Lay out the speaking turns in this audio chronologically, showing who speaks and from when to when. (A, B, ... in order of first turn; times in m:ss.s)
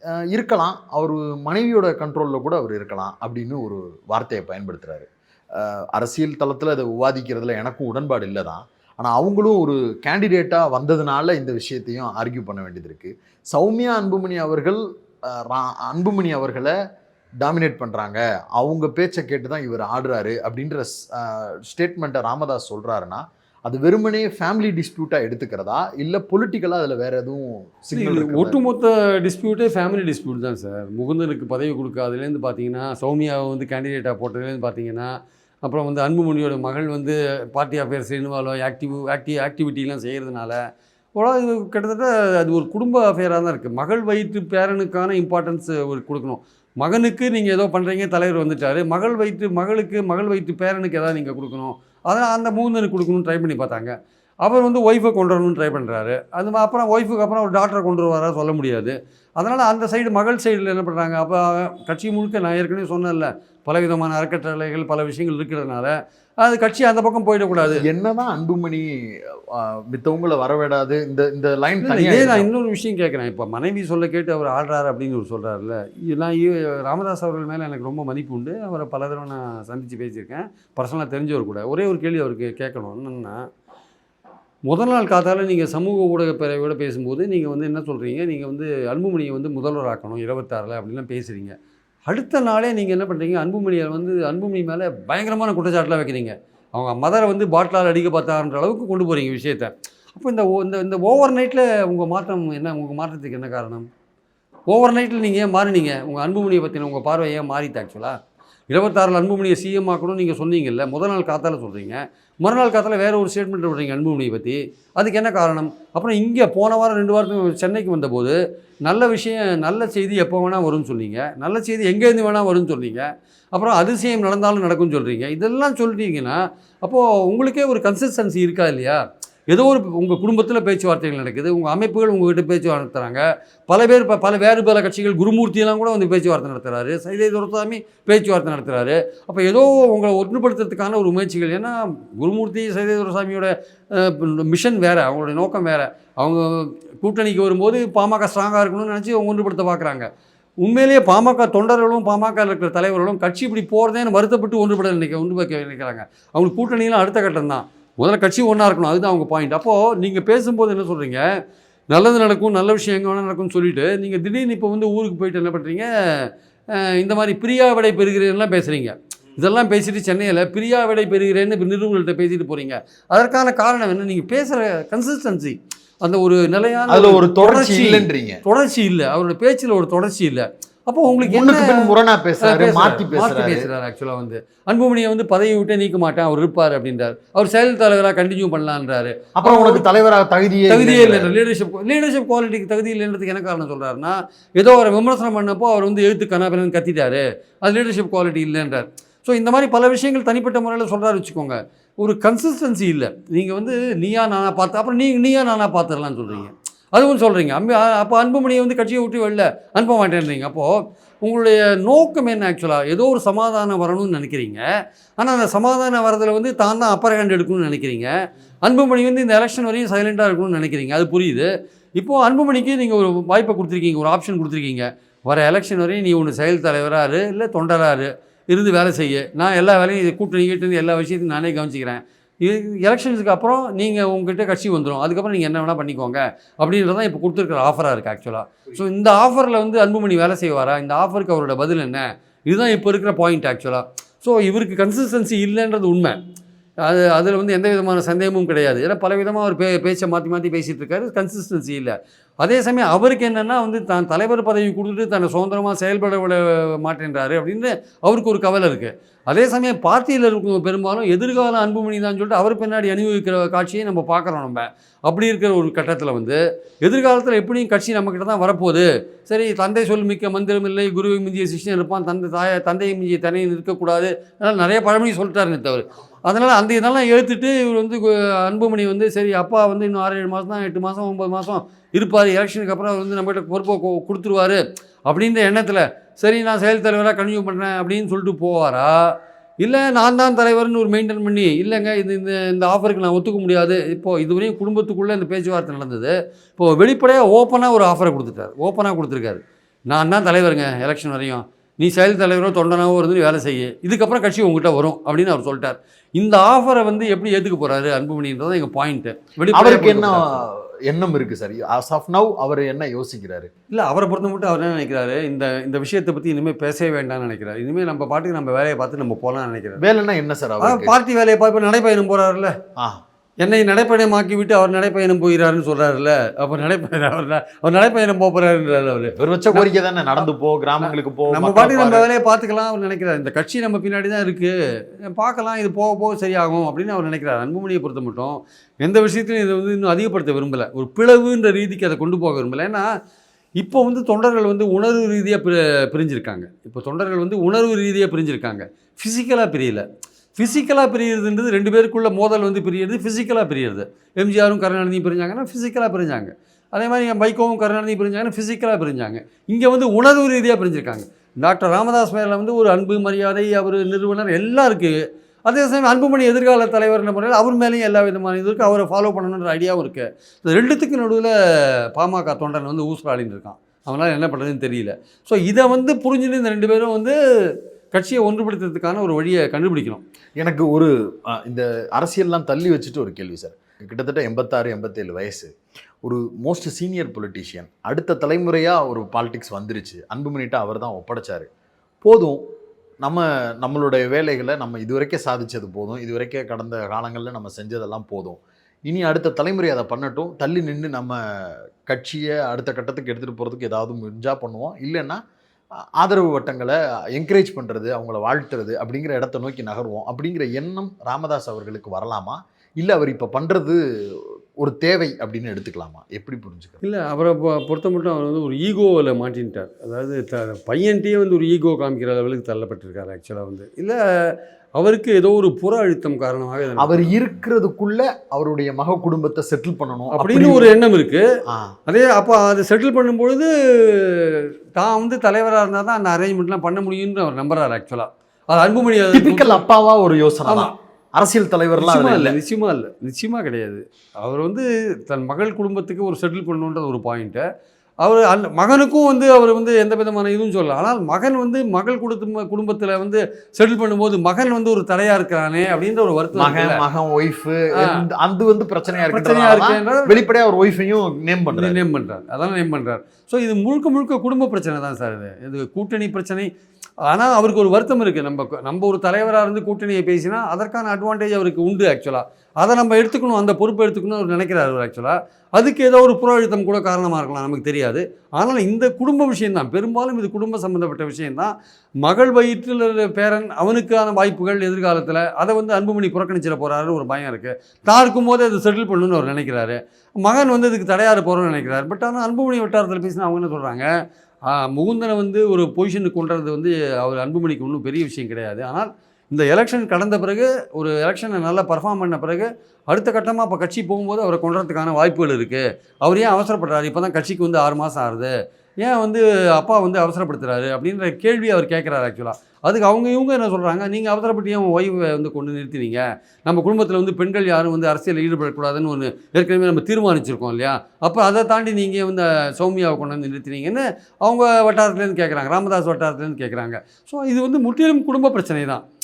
0:00.3-0:16.7 A
0:17.4-0:28.6 A
0:27.9-0:35.1 B
0:35.6-0:40.6 B
0:41.2-0:53.9 B
0:54.4-1:07.8 B
1:07.6-1:12.5 A
1:11.8-1:23.4 B
1:24.7-1:31.5 B
1:32.1-1:43.9 B
1:44.7-1:48.2 B
1:48.7-2:30.1 B
2:30.6-2:41.2 B
2:41.9-3:01.9 B
2:56.9-2:58.4 A
3:01.2-3:03.7 A
3:02.4-3:09.8 B
3:09.4-3:11.3 A
3:10.7-3:34.6 B
3:35.2-3:38.1 B
3:38.6-4:06.2 B
4:06.8-5:10.4 B
5:09.5-5:13.5 A
5:13.7-5:19.8 B
5:19.8-5:21.0 A
5:20.6-5:22.5 B
5:23.4-5:29.7 B
5:29.2-5:32.0 A
5:30.8-5:42.9 B
5:43.6-6:11.3 B
6:11.9-6:17.1 B
6:17.9-6:20.0 B
6:20.4-6:25.5 A
6:26.0-6:31.5 A
6:32.0-6:32.4 A
6:33.0-6:45.2 A
6:46.0-6:56.8 A
6:56.8-7:04.0 B
7:04.8-7:07.1 B
7:06.8-7:10.7 A
7:10.1-7:11.2 B
7:11.9-7:19.6 B
7:19.1-7:22.4 A
7:20.5-7:20.7 B
7:21.8-7:27.4 B
7:28.0-7:36.8 B
7:36.3-7:41.8 A
7:39.1-7:40.2 B
7:41.5-7:46.5 B
7:47.1-8:13.8 B
8:14.5-8:48.8 B